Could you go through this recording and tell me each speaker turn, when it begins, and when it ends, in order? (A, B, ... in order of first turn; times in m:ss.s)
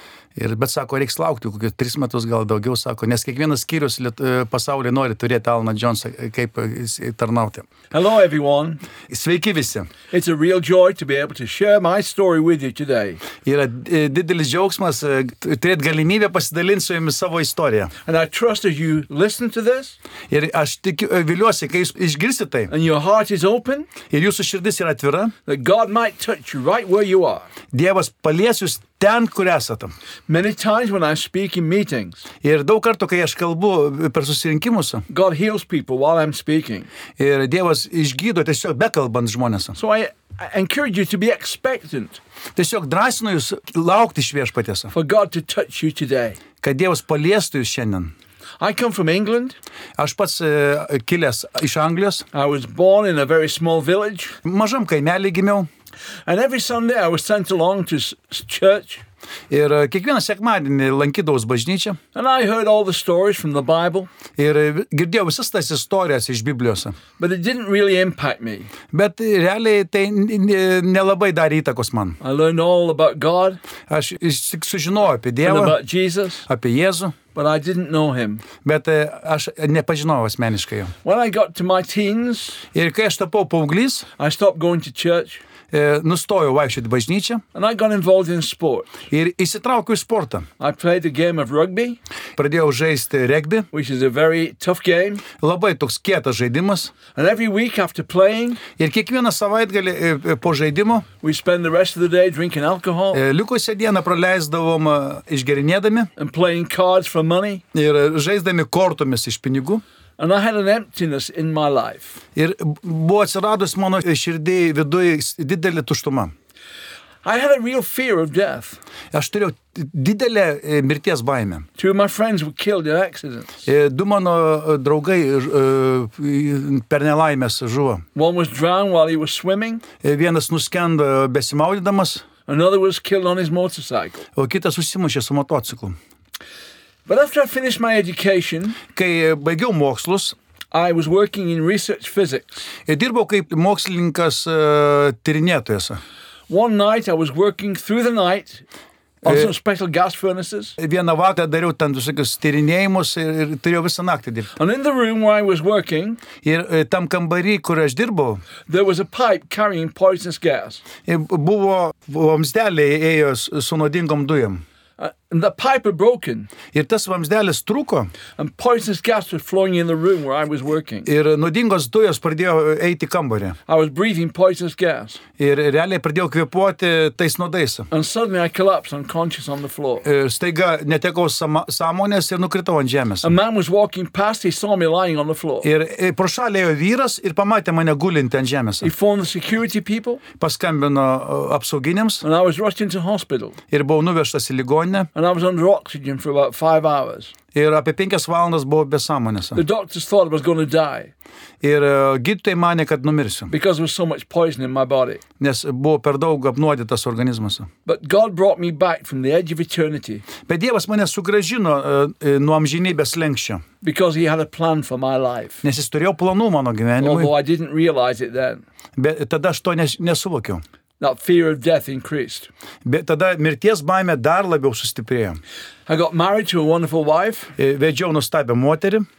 0:00.4-0:07.6 A
0:07.9-0:08.8 B
0:09.1-0:09.9 A
0:10.1-0:13.2 B
0:13.4-0:17.9 A
0:18.0-0:20.0 B
0:20.3-0:22.7 A
0:22.7-0:23.9 B
0:24.1-0:25.3 A
0:25.4-0:27.5 B
0:27.7-0:29.9 A
0:30.3-0:32.3 B
0:32.4-0:35.0 A
0:35.1-0:36.9 B
0:37.2-0:39.8 A
0:39.8-0:42.2 B
0:42.6-0:44.9 A
0:44.9-0:46.4 B
0:46.6-0:48.1 A
0:48.6-0:49.6 B
0:50.0-0:52.2 A
0:52.3-0:54.4 B
0:54.4-0:55.7 A
0:56.2-0:59.0 B
0:59.5-1:02.0 A
1:02.1-1:04.1 B
1:04.4-1:07.0 A
1:07.2-1:08.7 B
1:08.9-1:12.2 A
1:12.2-1:13.6 B
1:13.9-1:15.8 A
1:15.4-1:16.4 B
1:16.4-1:17.1 A
1:17.3-1:18.4 B
1:18.6-1:20.9 A
1:21.0-1:22.6 B
1:22.7-1:24.1 A
1:24.2-1:25.4 B
1:25.7-1:27.4 A
1:27.5-1:29.0 B
1:29.1-1:30.5 A
1:30.6-1:32.0 B
1:32.4-1:33.7 A
1:33.7-1:35.2 B
1:35.4-1:36.9 A
1:37.1-1:38.6 B
1:38.7-1:41.1 A
1:41.2-1:43.2 B
1:43.1-1:46.1 A
1:46.2-1:47.6 B
1:47.7-1:49.8 A
1:50.2-1:52.2 B
1:52.4-1:56.3 A
1:57.2-1:58.8 B
1:59.1-2:01.7 A
2:01.8-2:03.6 B
2:03.6-2:08.0 A
2:08.1-2:09.8 B
2:10.0-2:12.2 A
2:12.4-2:14.2 B
2:14.4-2:16.0 A
2:17.1-2:18.8 B
2:18.9-2:20.4 A
2:20.7-2:22.7 B
2:22.8-2:26.0 A
2:26.5-2:28.6 B
2:29.2-2:30.8 B
2:29.2-2:29.5 A
2:30.8-2:34.5 A
2:34.6-2:36.2 B
2:36.4-2:38.4 A
2:38.7-2:40.8 B
2:41.0-2:44.6 A
2:45.0-2:46.5 B
2:46.7-2:48.1 A
2:48.4-2:51.1 B
2:51.0-2:53.6 A
2:53.7-2:55.2 B
2:55.4-2:57.9 A
2:57.9-3:00.0 B
3:00.0-3:03.3 A
3:03.2-3:05.7 B
3:05.6-3:08.9 A
3:08.8-3:10.2 B
3:10.4-3:12.2 A
3:12.2-3:13.6 B
3:13.7-3:15.1 A
3:15.1-3:17.3 B
3:17.5-3:19.6 A
3:19.5-3:21.1 B
3:21.6-3:23.5 A
3:23.5-3:25.2 B
3:25.4-3:27.7 A
3:27.8-3:30.3 B
3:30.4-3:33.6 A
3:33.8-3:35.6 B
3:35.6-3:37.3 A
3:37.0-3:38.6 B
3:39.0-3:40.6 A
3:41.0-3:42.5 B
3:42.8-3:45.4 A
3:45.9-3:47.6 B
3:47.6-3:49.0 A